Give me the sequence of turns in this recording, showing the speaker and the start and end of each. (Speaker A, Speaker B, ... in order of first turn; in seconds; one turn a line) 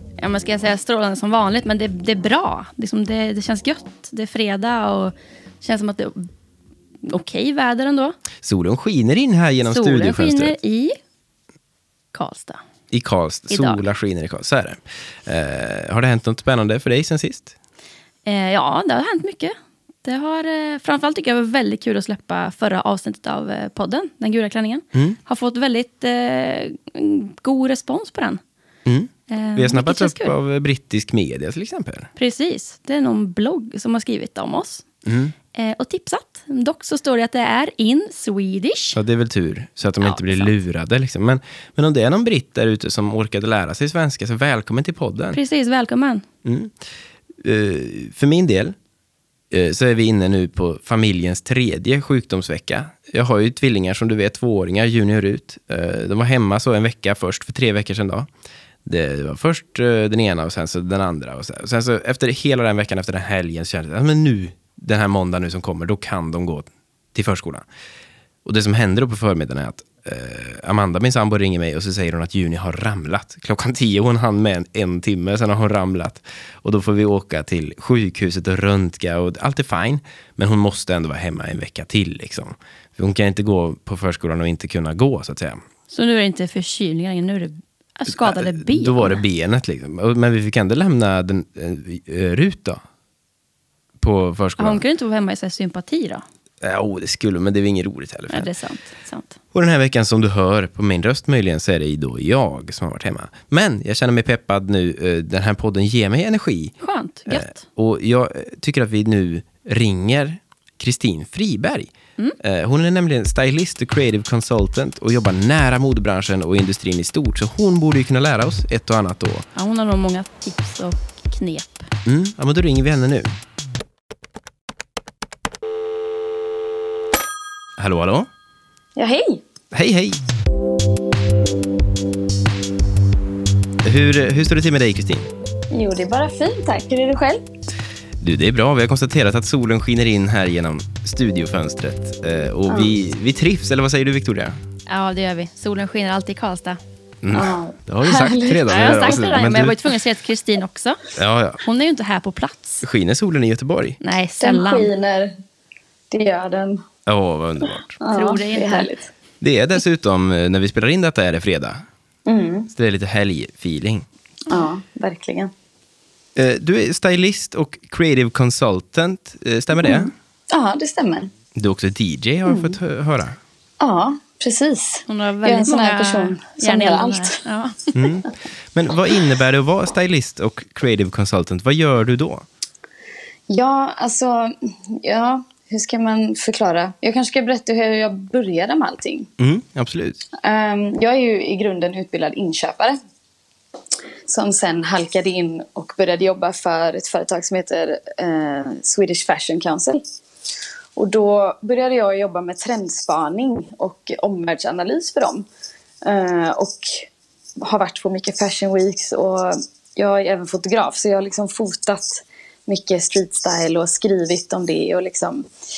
Speaker A: 0.2-6.3
Speaker A: 7.0-8.2
Speaker B: 8.4-10.5
Speaker A: 9.7-11.0
Speaker A: 12.1-12.6
Speaker B: 12.9-17.5
Speaker A: 13.5-13.8
Speaker A: 18.3-28.4
Speaker B: 28.9-32.1
Speaker A: 29.3-30.3
Speaker A: 32.2-34.9
Speaker B: 35.0-35.3
Speaker A: 35.5-39.0
Speaker B: 39.0-45.4
Speaker A: 40.0-40.5
Speaker A: 45.3-46.2
Speaker B: 46.4-46.8
Speaker B: 47.4-48.8
Speaker B: 49.5-58.3
Speaker B: 58.9-67.7
Speaker B: 68.5-85.6
Speaker A: 85.9-89.2
Speaker B: 88.1-92.8
Speaker B: 94.0-94.8
Speaker A: 94.6-96.2
Speaker B: 96.6-98.5
Speaker A: 98.3-99.3
Speaker B: 99.5-106.8
Speaker A: 106.8-107.6
Speaker B: 107.3-119.5
Speaker A: 119.6-121.9
Speaker B: 122.0-123.3
Speaker B: 127.8-128.3
Speaker C: 129.0-129.4
Speaker B: 129.7-130.2
Speaker B: 133.8-135.3
Speaker C: 135.7-137.4
Speaker B: 138.2-144.6
Speaker A: 144.9-146.8
Speaker B: 147.2-149.8
Speaker C: 147.3-149.2
Speaker A: 148.7-151.0
Speaker B: 151.2-151.6
Speaker A: 151.6-152.8
Speaker B: 152.8-154.0
Speaker A: 154.0-154.9
Speaker C: 154.4-155.3
Speaker C: 156.1-156.8
Speaker B: 157.1-158.0
Speaker C: 158.0-159.1
Speaker A: 158.1-158.9
Speaker B: 159.4-161.8
Speaker C: 162.3-162.7
Speaker B: 162.7-164.1
Speaker C: 164.5-165.5
Speaker B: 166.3-170.1
Speaker C: 169.8-171.3
Speaker B: 171.6-173.4
Speaker C: 172.5-172.8
Speaker C: 173.8-177.4
Speaker A: 175.1-177.9
Speaker B: 177.9-182.4
Speaker C: 183.5-189.3
Speaker B: 189.4-190.2
Speaker C: 190.4-193.0
Speaker C: 194.3-200.0
Speaker C: 201.0-205.5
Speaker C: 206.0-207.1
Speaker C: 207.6-215.5